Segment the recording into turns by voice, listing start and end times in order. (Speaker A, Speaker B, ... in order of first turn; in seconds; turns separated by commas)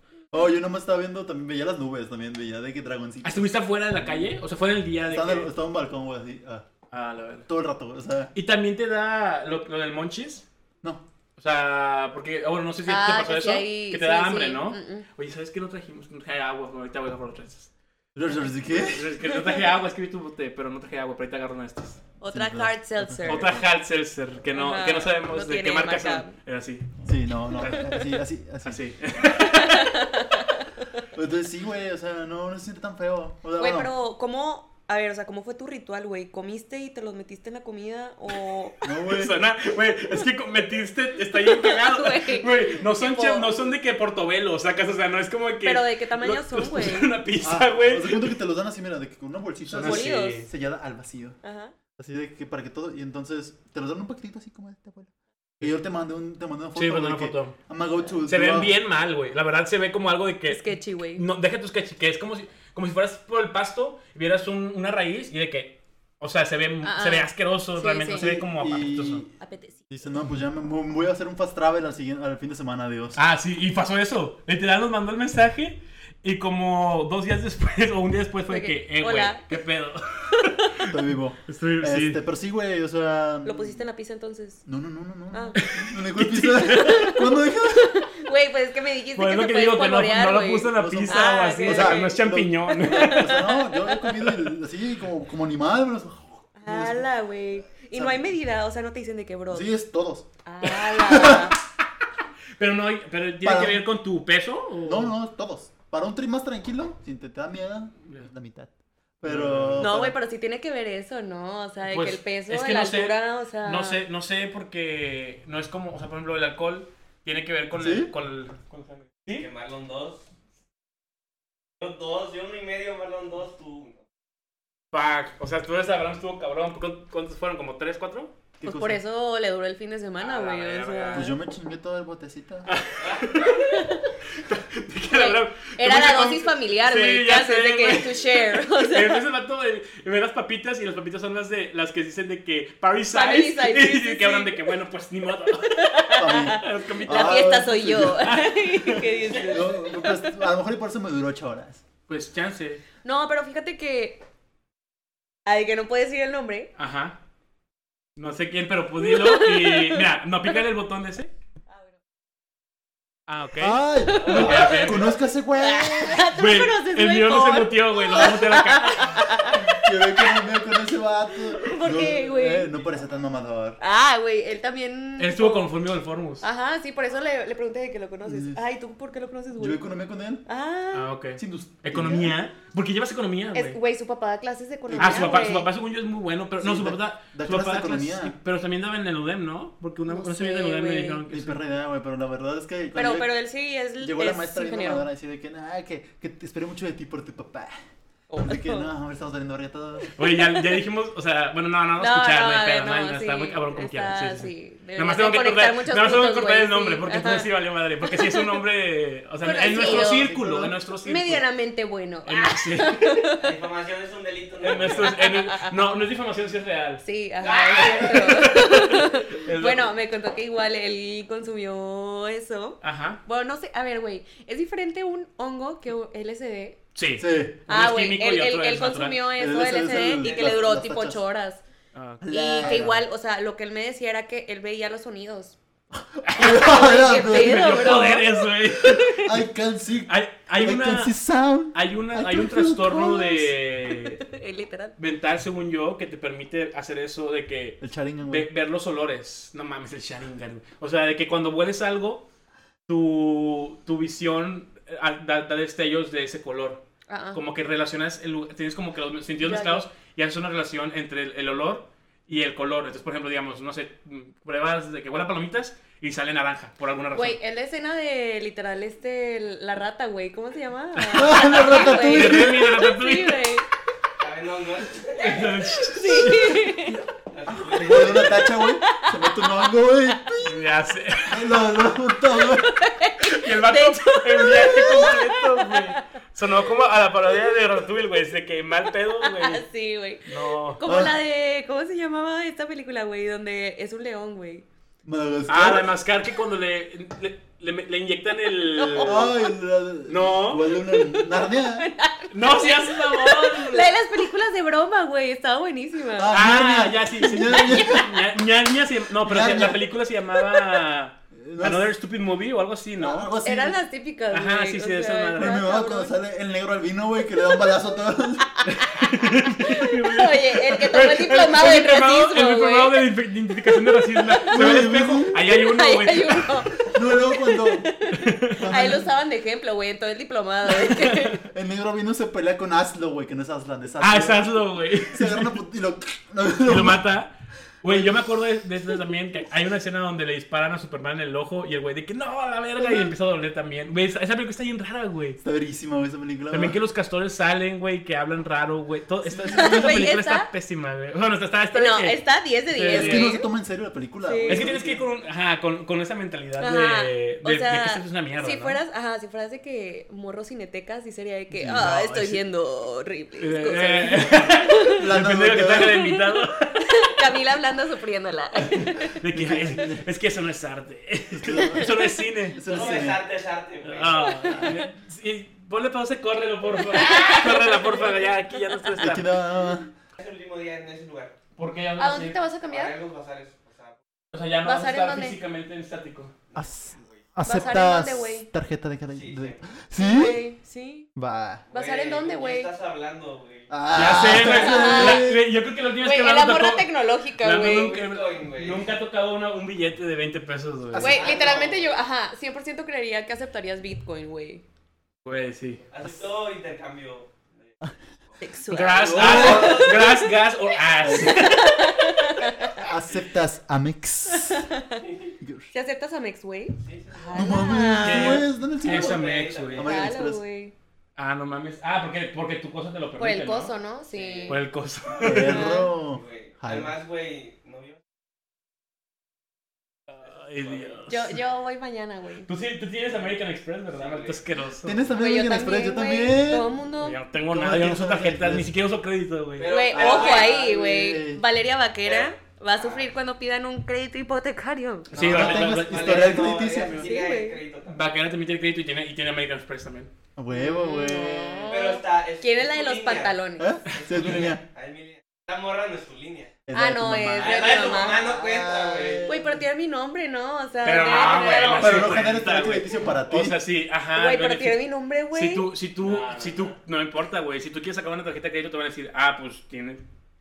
Speaker A: 0.3-3.5, Speaker B: 3.2-5.5, Speaker A: 5.1-6.7, Speaker B: 6.9-7.5, Speaker A: 7.5-8.3, Speaker B: 8.3-10.4, Speaker B: 11.4-17.7, Speaker C: 12.9-15.1, Speaker A: 18.1-19.1, Speaker B: 18.7-22.0, Speaker C: 19.3-19.6, Speaker C: 22.2-23.6, Speaker A: 22.3-23.6, Speaker B: 23.2-26.9, Speaker C: 24.5-26.4, Speaker A: 27.1-28.8, Speaker B: 27.5-28.1, Speaker B: 28.6-29.9, Speaker C: 29.3-31.0, Speaker A: 31.1-33.9, Speaker C: 33.6-38.8, Speaker A: 38.8-39.4, Speaker B: 39.0-48.4, Speaker C: 41.3-43.7, Speaker C: 45.6-47.1, Speaker A: 47.4-51.4, Speaker B: 49.6-50.5, Speaker C: 49.8-50.5, Speaker C: 51.4-51.7, Speaker A: 52.0-58.7, Speaker B: 56.7-57.6, Speaker B: 58.3-69.2, Speaker C: 60.5-61.2, Speaker C: 66.8-68.2, Speaker A: 68.1-69.3, Speaker C: 69.4-69.8, Speaker A: 69.9-73.2, Speaker B: 73.2-82.2, Speaker C: 78.5-79.5, Speaker C: 80.4-80.7, Speaker A: 80.9-83.8, Speaker C: 83.4-84.6, Speaker A: 84.7-88.0, Speaker C: 85.3-85.6, Speaker B: 85.6-87.1, Speaker C: 86.7-94.1, Speaker B: 89.1-93.3, Speaker A: 90.7-97.1, Speaker C: 96.6-99.7, Speaker A: 97.9-98.3, Speaker A: 99.5-100.2, Speaker C: 100.4-101.6, Speaker B: 100.6-101.6, Speaker A: 101.1-101.5, Speaker B: 102.6-105.1, Speaker A: 103.4-103.8, Speaker A: 104.8-110.2, Speaker B: 109.2-109.9, Speaker C: 109.8-114.0, Speaker B: 111.8-119.5, Speaker A: 117.7-118.1, Speaker D: 119.4-120.2, Speaker D: 121.8-124.0, Speaker B: 124.9-128.3, Speaker A: 128.6-129.0, Speaker C: 128.6-131.3, Speaker B: 130.2-131.3, Speaker A: 131.1-132.7, Speaker B: 132.7-149.6, Speaker D: 133.0-133.4, Speaker C: 133.6-134.1, Speaker C: 135.1-139.2, Speaker C: 143.1-144.7, Speaker C: 145.5-150.2, Speaker A: 146.2-148.3, Speaker A: 149.4-151.8, Speaker B: 152.1-152.8, Speaker C: 153.0-154.2, Speaker C: 155.4-156.7, Speaker B: 156.8-157.2, Speaker B: 158.2-161.3, Speaker C: 159.0-160.5, Speaker B: 163.3-165.2, Speaker A: 163.6-166.3, Speaker C: 164.0-170.5, Speaker D: 164.2-164.8, Speaker B: 166.3-169.2, Speaker A: 169.6-173.8, Speaker C: 171.4-172.7, Speaker C: 173.8-175.7, Speaker B: 175.2-176.4, Speaker C: 176.4-179.8, Speaker A: 178.2-178.6, Speaker A: 179.6-180.4, Speaker C: 180.4-181.1, Speaker B: 180.9-183.8, Speaker A: 181.4-182.3, Speaker C: 183.5-185.7, Speaker A: 184.9-185.4, Speaker B: 185.0-191.6, Speaker A: 186.6-188.4, Speaker C: 190.1-191.2, Speaker A: 191.3-193.3, Speaker C: 192.9-195.1, Speaker A: 194.0-197.8, Speaker C: 198.3-198.9, Speaker A: 198.4-200.1, Speaker B: 200.2-211.4, Speaker C: 200.3-200.6, Speaker C: 202.0-207.5, Speaker C: 208.0-208.6, Speaker C: 209.4-210.3, Speaker A: 209.5-210.8, Speaker C: 211.0-213.4, Speaker B: 212.2-213.2, Speaker D: 213.4-215.2, Speaker B: 214.6-217.1, Speaker C: 215.0-215.7, Speaker C: 217.0-226.8, Speaker D: 217.4-218.5, Speaker B: 217.7-219.9, Speaker B: 222.8-223.2, Speaker B: 226.9-229.3, Speaker A: 227.2-227.6, Speaker C: 227.7-231.6, Speaker A: 229.4-231.2, Speaker D: 230.2-230.5, Speaker B: 231.9-232.2, Speaker A: 232.2-233.0, Speaker C: 232.3-235.6, Speaker A: 235.9-238.2, Speaker B: 236.2-239.4, Speaker C: 236.4-238.4, Speaker A: 238.8-243.5, Speaker B: 240.1-241.1, Speaker B: 241.7-244.2, Speaker C: 243.8-244.9, Speaker B: 245.0-252.2, Speaker A: 247.8-248.5, Speaker B: 252.9-267.4, Speaker C: 257.1-257.4, Speaker C: 259.4-259.9, Speaker C: 267.1-273.7, Speaker B: 271.0-273.4, Speaker A: 271.1-272.7, Speaker D: 274.2-275.7, Speaker B: 275.1-276.7, Speaker C: 275.9-277.0, Speaker D: 277.3-278.4, Speaker A: 277.5-280.6, Speaker C: 278.4-279.7, Speaker B: 280.4-281.6, Speaker A: 281.2-282.8, Speaker C: 282.3-286.0, Speaker B: 283.2-289.6, Speaker C: 289.2-294.6, Speaker B: 290.2-290.8, Speaker A: 290.9-291.1, Speaker A: 295.1-295.9, Speaker B: 295.5-299.3, Speaker C: 298.7-299.4, Speaker A: 299.0-301.9, Speaker B: 300.1-300.7, Speaker C: 300.9-306.4, Speaker B: 302.3-303.9, Speaker A: 306.1-308.1, Speaker B: 306.3-313.3, Speaker C: 307.4-308.1, Speaker A: 309.2-309.9, Speaker A: 311.3-311.9, Speaker A: 313.0-313.8, Speaker C: 313.4-316.2, Speaker B: 314.3-315.6, Speaker A: 315.4-318.6, Speaker C: 318.6-323.1, Speaker B: 318.7-326.6, Speaker C: 323.6-324.5, Speaker A: 324.5-325.4, Speaker C: 325.5-331.4, Speaker A: 326.9-327.9, Speaker B: 328.1-328.7, Speaker A: 328.6-329.1, Speaker B: 330.7-331.4, Speaker A: 331.5-334.6, Speaker B: 334.0-335.6, Speaker A: 335.1-337.0, Speaker B: 336.6-337.3, Speaker B: 337.8-345.4, Speaker A: 337.8-338.1, Speaker C: 342.8-343.1, Speaker A: 345.4-346.8, Speaker B: 346.5-353.4, Speaker A: 349.2-350.1, Speaker C: 349.5-350.5, Speaker C: 351.7-353.5, Speaker A: 352.9-355.1, Speaker C: 354.2-354.7, Speaker B: 354.5-358.8, Speaker C: 356.6-365.0, Speaker A: 361.5-362.3, Speaker B: 361.9-362.4, Speaker B: 363.4-366.9, Speaker A: 364.9-366.0, Speaker C: 366.8-369.1, Speaker B: 368.6-372.9, Speaker A: 369.3-370.0, Speaker A: 371.3-373.2, Speaker C: 371.5-372.1, Speaker D: 372.6-374.4, Speaker B: 373.8-379.5, Speaker C: 374.2-374.8, Speaker A: 374.5-374.8, Speaker C: 376.8-378.9, Speaker A: 379.0-379.9, Speaker D: 380.2-381.4, Speaker B: 381.6-382.4, Speaker C: 382.0-382.9, Speaker D: 382.7-384.0, Speaker B: 384.3-386.3, Speaker C: 384.6-385.4, Speaker D: 386.5-387.2, Speaker A: 386.6-390.4, Speaker C: 387.4-388.5, Speaker D: 389.1-389.6, Speaker C: 389.9-391.1, Speaker A: 391.1-391.6, Speaker D: 391.7-394.3, Speaker C: 391.7-392.7, Speaker A: 393.7-395.4, Speaker B: 393.9-401.2, Speaker C: 394.3-395.3, Speaker C: 396.0-398.0, Speaker D: 397.6-398.9, Speaker A: 400.9-401.5, Speaker C: 401.0-404.6, Speaker D: 401.0-401.9, Speaker B: 405.2-405.9, Speaker D: 405.9-407.9, Speaker C: 408.4-410.1, Speaker B: 408.7-412.1, Speaker A: 409.0-410.0, Speaker D: 409.0-410.3, Speaker A: 411.0-411.4, Speaker C: 411.1-412.9, Speaker A: 412.7-414.7, Speaker C: 414.3-415.0, Speaker D: 415.0-415.3, Speaker A: 415.4-415.7, Speaker C: 415.7-418.4, Speaker D: 416.8-417.6, Speaker A: 417.3-420.4, Speaker B: 417.9-419.9, Speaker D: 418.8-419.9, Speaker C: 419.8-420.7, Speaker B: 421.2-423.7, Speaker C: 423.2-424.6, Speaker D: 424.1-424.6, Speaker B: 424.5-425.6, Speaker A: 425.2-426.9, Speaker C: 425.3-425.9, Speaker D: 426.0-428.0, Speaker B: 430.1-431.4, Speaker D: 430.6-431.0, Speaker C: 431.1-432.5, Speaker B: 432.4-435.1, Speaker D: 433.1-433.3, Speaker D: 433.9-434.4, Speaker A: 434.8-436.7, Speaker C: 435.2-437.2, Speaker B: 437.0-439.7, Speaker A: 437.5-438.7, Speaker D: 439.6-440.7, Speaker C: 439.6-445.1, Speaker A: 439.9-441.4, Speaker D: 442.1-443.1, Speaker D: 445.1-448.1, Speaker B: 445.1-446.5, Speaker A: 445.1-447.1, Speaker C: 447.0-447.6, Speaker B: 447.9-450.1, Speaker A: 450.4-451.7, Speaker C: 450.5-453.7, Speaker D: 451.7-453.4, Speaker A: 453.6-454.6, Speaker D: 453.9-456.5, Speaker B: 453.9-454.6, Speaker A: 456.7-459.6, Speaker C: 456.7-458.3, Speaker D: 457.3-459.4, Speaker C: 459.2-462.1, Speaker B: 460.8-470.0, Speaker D: 461.0-461.8, Speaker A: 461.8-463.6, Speaker C: 464.1-465.7, Speaker D: 466.0-466.7